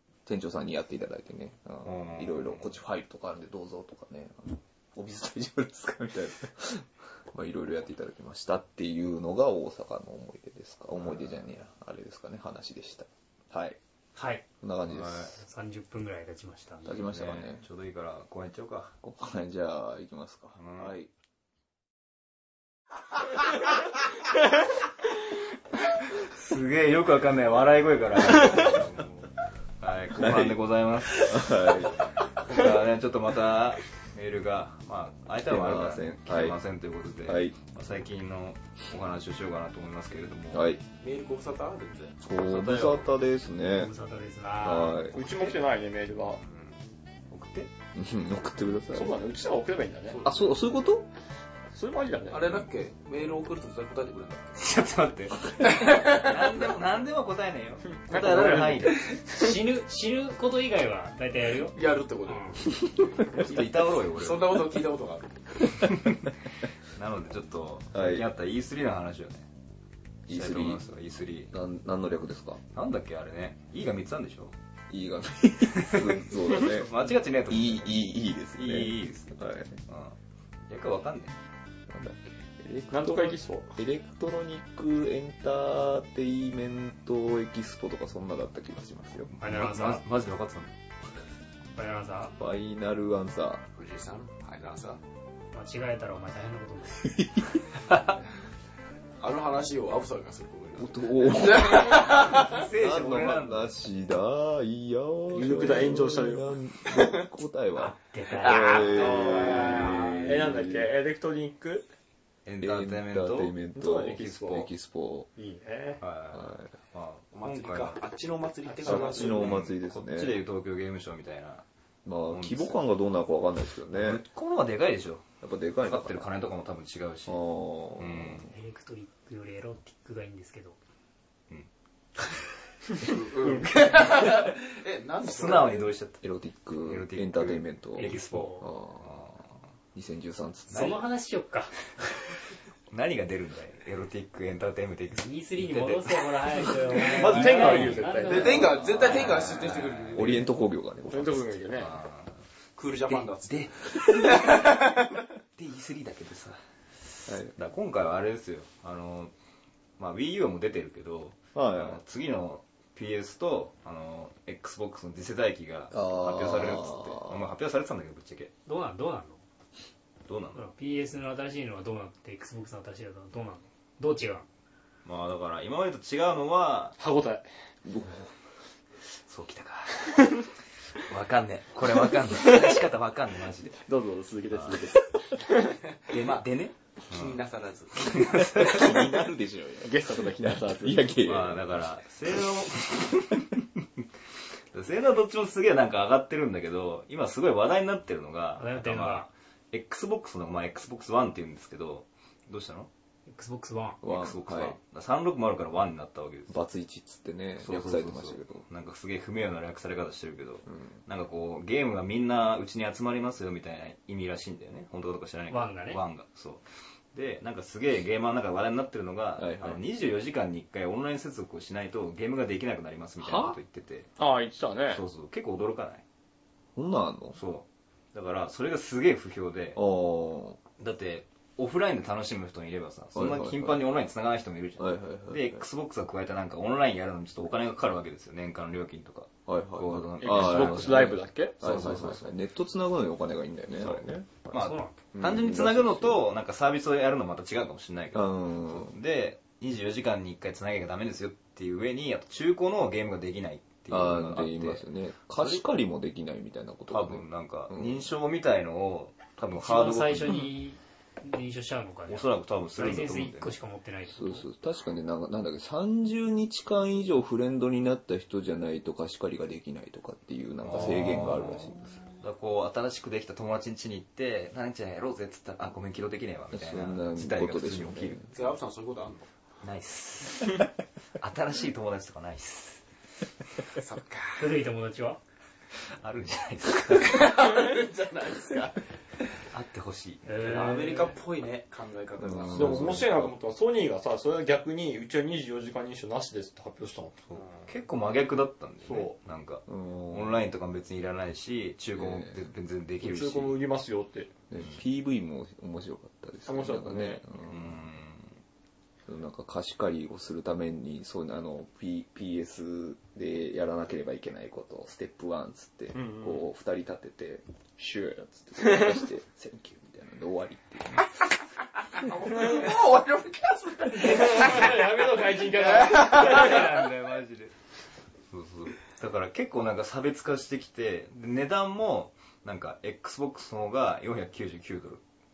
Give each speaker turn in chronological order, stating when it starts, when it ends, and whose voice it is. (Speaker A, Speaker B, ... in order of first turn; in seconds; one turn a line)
Speaker A: 0.2-13.8
Speaker B: 1.8-2.7
Speaker C: 14.2-14.4
Speaker A: 14.6-15.3
Speaker B: 14.9-15.4
Speaker C: 15.4-16.9
Speaker A: 16.8-17.6
Speaker B: 16.9-18.9
Speaker A: 19.0-21.1
Speaker B: 20.6-20.9
Speaker B: 26.2-40.7
Speaker A: 30.1-30.6
Speaker A: 31.1-32.0
Speaker A: 35.5-36.6
Speaker A: 37.2-37.6
Speaker A: 40.5-40.8
Speaker D: 41.0-42.2
Speaker A: 42.2-43.9
Speaker B: 42.3-43.1
Speaker C: 43.7-45.1
Speaker A: 44.6-45.2
Speaker E: 45.1-46.4
Speaker B: 46.4-46.7
Speaker B: 47.3-47.7
Speaker A: 47.9-49.2
Speaker E: 48.9-50.2
Speaker D: 50.1-50.4
Speaker A: 50.2-51.1
Speaker E: 51.7-52.5
Speaker D: 52.3-54.6
Speaker B: 54.6-59.0
Speaker D: 55.6-56.7
Speaker E: 58.0-59.5
Speaker C: 59.2-62.6
Speaker D: 61.7-65.8
Speaker B: 63.3-64.7
Speaker B: 65.9-66.2
Speaker B: 66.9-69.5
Speaker A: 67.9-68.3
Speaker A: 70.3-70.8
Speaker B: 70.3-71.5
Speaker A: 71.5-72.6
Speaker B: 72.7-74.5
Speaker A: 74.9-76.9
Speaker B: 75.7-78.0
Speaker A: 77.5-79.8
Speaker B: 78.6-80.2
Speaker B: 80.7-81.3
Speaker A: 81.9-89.3
Speaker E: 82.9-83.8
Speaker B: 89.4-90.7
Speaker C: 89.4-90.0
Speaker C: 91.8-92.3
Speaker A: 92.4-93.6
Speaker D: 93.8-95.0
Speaker C: 95.5-97.2
Speaker A: 97.0-97.6
Speaker B: 97.9-98.2
Speaker D: 99.2-102.6
Speaker A: 100.8-110.9
Speaker B: 102.2-103.7
Speaker E: 105.3-106.5
Speaker C: 107.8-109.5
Speaker E: 108.5-111.8
Speaker B: 109.2-110.0
Speaker B: 112.5-114.7
Speaker A: 112.6-115.3
Speaker E: 113.8-114.6
Speaker E: 115.4-116.0
Speaker B: 116.0-118.0
Speaker A: 116.3-116.7
Speaker D: 117.3-119.6
Speaker B: 118.8-121.6
Speaker A: 118.8-120.4
Speaker A: 122.0-124.2
Speaker B: 122.3-122.8
Speaker B: 123.9-125.3
Speaker A: 125.4-126.3
Speaker B: 125.8-127.4
Speaker A: 127.3-128.5
Speaker B: 128.0-128.5
Speaker C: 128.5-130.8
Speaker D: 133.0-135.9
Speaker B: 135.2-136.2
Speaker A: 136.2-139.3
Speaker B: 136.8-139.4
Speaker C: 138.0-138.7
Speaker A: 139.9-141.0
Speaker B: 140.7-141.0
Speaker C: 140.7-141.7
Speaker B: 142.9-150.4
Speaker C: 145.1-148.7
Speaker E: 147.0-148.6
Speaker D: 148.2-150.4
Speaker A: 148.5-149.4
Speaker A: 150.1-151.5
Speaker E: 151.1-151.9
Speaker B: 151.7-152.4
Speaker D: 152.8-155.1
Speaker B: 153.0-154.8
Speaker B: 155.6-156.6
Speaker B: 157.1-159.3
Speaker A: 157.3-157.5
Speaker B: 160.0-168.5
Speaker A: 161.5-162.0
Speaker A: 165.9-167.5
Speaker C: 168.7-169.4
Speaker B: 170.2-170.6
Speaker C: 170.5-174.4
Speaker B: 175.0-177.0
Speaker E: 177.0-177.5
Speaker A: 177.8-178.3
Speaker B: 179.2-180.4
Speaker B: 181.0-183.8
Speaker E: 182.3-182.8
Speaker E: 183.8-185.8
Speaker B: 184.5-184.8
Speaker B: 186.1-187.4
Speaker D: 186.1-186.4
Speaker D: 187.1-188.7
Speaker B: 188.0-189.0
Speaker A: 188.5-191.8
Speaker E: 189.8-191.1
Speaker B: 191.2-194.0
Speaker A: 193.0-193.3
Speaker B: 194.7-202.9
Speaker C: 198.6-199.3
Speaker C: 203.3-204.0
Speaker A: 204.0-204.8
Speaker B: 204.0-206.6
Speaker A: 206.5-208.6
Speaker B: 207.6-224.1
Speaker A: 210.7-210.9
Speaker C: 215.5-216.0
Speaker A: 219.4-219.8
Speaker E: 224.2-225.0
Speaker B: 224.9-226.0
Speaker A: 226.7-227.4
Speaker B: 227.3-229.8
Speaker A: 229.8-230.6
Speaker B: 230.8-242.1
Speaker A: 233.1-233.9
Speaker A: 234.8-235.6
Speaker A: 239.5-244.5
Speaker E: 240.2-242.2
Speaker B: 243.7-254.8
Speaker C: 244.5-244.9
Speaker A: 245.1-246.2
Speaker A: 248.1-248.9
Speaker A: 253.9-258.1
Speaker B: 256.9-260.4
Speaker C: 259.5-264.4
Speaker B: 262.1-263.5
Speaker A: 264.1-271.9
Speaker B: 270.6-278.3
Speaker A: 276.5-278.3
Speaker D: 278.3-279.3
Speaker B: 279.6-280.7
Speaker B: 281.2-282.8
Speaker D: 283.8-284.6
Speaker C: 284.4-285.2
Speaker B: 286.0-287.3
Speaker D: 287.0-288.8
Speaker B: 289.5-290.7
Speaker C: 290.2-291.1
Speaker D: 290.4-293.1
Speaker A: 292.2-293.3
Speaker E: 292.5-297.1
Speaker B: 297.3-303.6
Speaker D: 297.3-297.7
Speaker E: 298.8-299.1
Speaker A: 299.7-300.4
Speaker A: 301.9-302.4
Speaker E: 303.0-304.3
Speaker A: 304.5-307.8
Speaker E: 306.4-307.2
Speaker B: 307.4-308.3
Speaker A: 309.1-321.1
Speaker E: 315.9-316.4
Speaker D: 322.0-324.6
Speaker E: 322.2-322.7
Speaker E: 323.9-326.7
Speaker B: 324.3-324.6
Speaker B: 325.4-327.5
Speaker D: 326.1-326.6
Speaker B: 328.3-335.0